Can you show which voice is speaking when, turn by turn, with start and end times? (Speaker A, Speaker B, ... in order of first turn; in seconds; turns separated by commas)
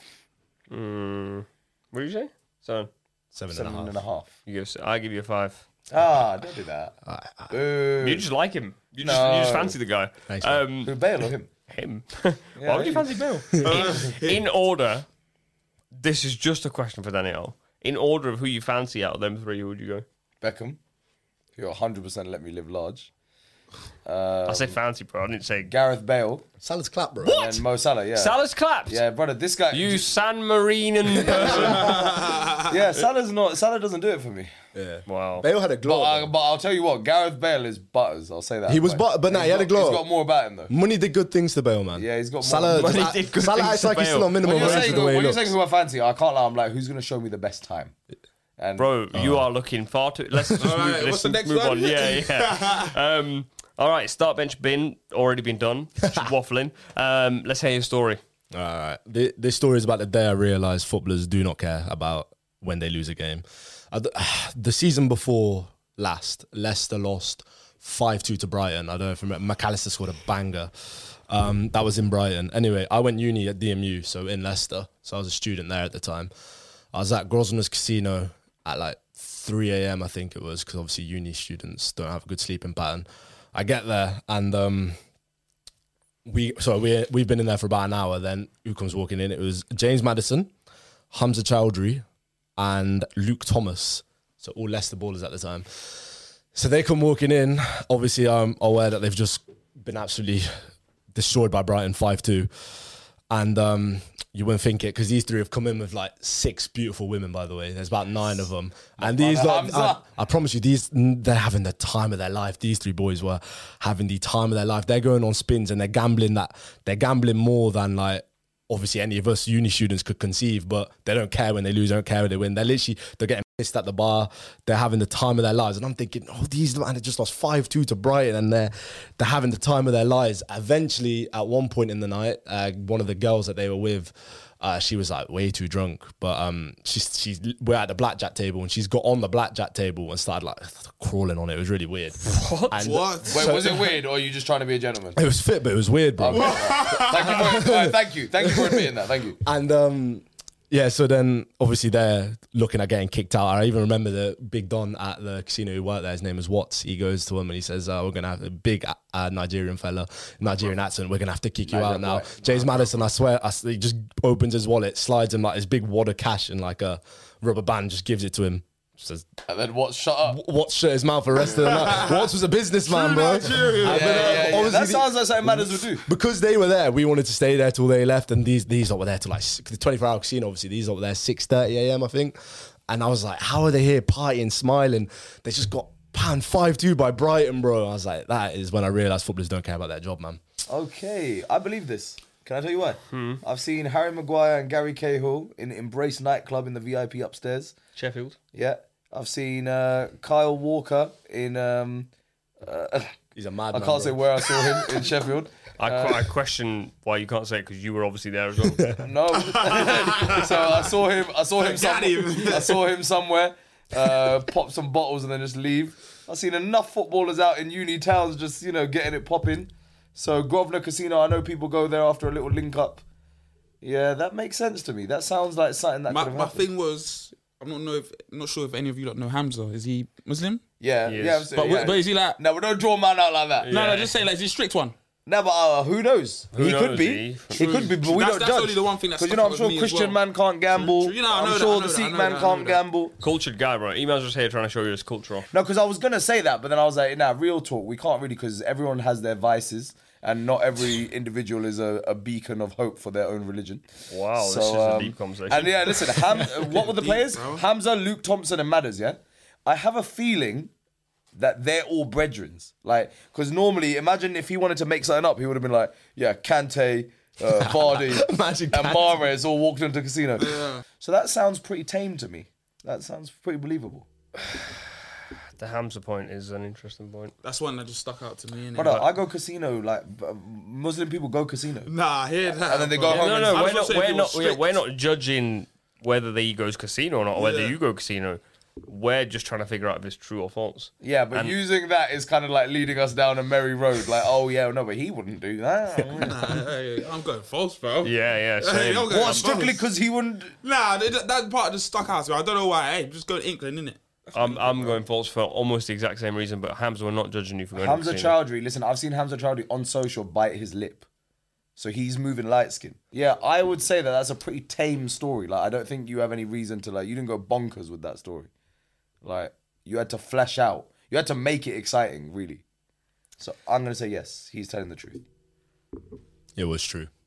Speaker A: 0.7-2.9, Speaker B: 3.3-4.0, Speaker C: 3.5-4.3, Speaker A: 4.5-5.6, Speaker C: 5.9-7.0, Speaker B: 7.0-7.5, Speaker C: 7.5-8.3, Speaker A: 8.0-10.9, Speaker C: 9.0-9.8, Speaker B: 10.3-10.7, Speaker C: 10.8-11.5, Speaker A: 11.7-15.1, Speaker C: 12.6-13.1, Speaker D: 13.6-14.4, Speaker A: 15.9-20.1, Speaker C: 20.4-20.8, Speaker C: 21.6-23.1, Speaker C: 24.1-24.8, Speaker A: 24.4-25.7, Speaker C: 25.7-26.5, Speaker B: 26.6-27.4, Speaker A: 27.2-27.6, Speaker C: 27.3-30.1, Speaker A: 28.1-29.0, Speaker A: 29.7-32.1, Speaker C: 31.2-34.5, Speaker D: 31.8-32.5, Speaker B: 34.7-36.3, Speaker A: 35.1-35.5, Speaker C: 35.8-40.7, Speaker B: 38.7-40.1, Speaker B: 40.7-45.5, Speaker C: 42.0-43.0, Speaker A: 42.7-45.1, Speaker C: 44.4-47.9, Speaker C: 48.6-48.9, Speaker A: 48.8-58.2, Speaker B: 49.1-49.5, Speaker D: 50.6-52.9, Speaker B: 56.0-56.3, Speaker B: 58.5-70.7, Speaker B: 71.3-76.3, Speaker B: 76.9-85.0, Speaker B: 86.2-90.5, Speaker B: 91.1-92.0, Speaker B: 92.6-100.5, Speaker B: 101.1-102.5, Speaker B: 103.3-143.9, Speaker C: 109.0-110.0, Speaker A: 142.2-142.8, Speaker D: 142.8-143.8, Speaker C: 143.3-145.2, Speaker B: 145.2-148.9, Speaker C: 146.2-149.4, Speaker D: 146.3-147.6, Speaker B: 149.4-169.3, Speaker C: 161.7-163.0, Speaker C: 169.5-170.4, Speaker B: 170.2-190.4, Speaker D: 171.6-172.2, Speaker D: 172.9-174.6, Speaker C: 173.8-176.1, Speaker C: 190.7-197.7, Speaker A: 193.1-193.4, Speaker A: 197.9-198.4, Speaker C: 198.5-202.1, Speaker C: 202.6-203.2, Speaker B: 203.3-205.0, Speaker C: 203.7-206.3, Speaker A: 205.8-208.9, Speaker B: 208.7-209.1, Speaker C: 209.0-223.0, Speaker D: 209.3-210.9, Speaker D: 211.6-212.8, Speaker C: 223.8-226.6, Speaker D: 226.1-230.6, Speaker C: 230.8-233.7, Speaker A: 231.1-231.5, Speaker D: 231.6-232.4, Speaker A: 233.6-234.1, Speaker D: 233.7-234.9, Speaker C: 235.3-243.1, Speaker A: 236.5-237.9, Speaker D: 237.7-240.2, Speaker D: 240.7-242.8, Speaker A: 243.2-245.5, Speaker C: 245.5-260.7, Speaker A: 254.1-256.0, Speaker D: 256.3-257.6, Speaker C: 261.3-274.1, Speaker B: 267.5-269.2, Speaker D: 270.4-270.8, Speaker A: 275.6-277.3, Speaker D: 277.4-279.0, Speaker C: 278.8-281.9, Speaker A: 278.8-279.1, Speaker D: 281.9-284.6, Speaker C: 282.7-283.6, Speaker A: 283.1-291.6, Speaker D: 287.3-287.8, Speaker C: 291.0-296.6, Speaker D: 296.1-299.8, Speaker A: 298.0-299.5, Speaker C: 299.1-300.5, Speaker D: 300.6-305.0, Speaker A: 304.3-308.3, Speaker C: 307.7-311.1, Speaker C: 311.8-318.5, Speaker C: 319.2-322.6, Speaker C: 323.4-325.2, Speaker B: 326.6-327.1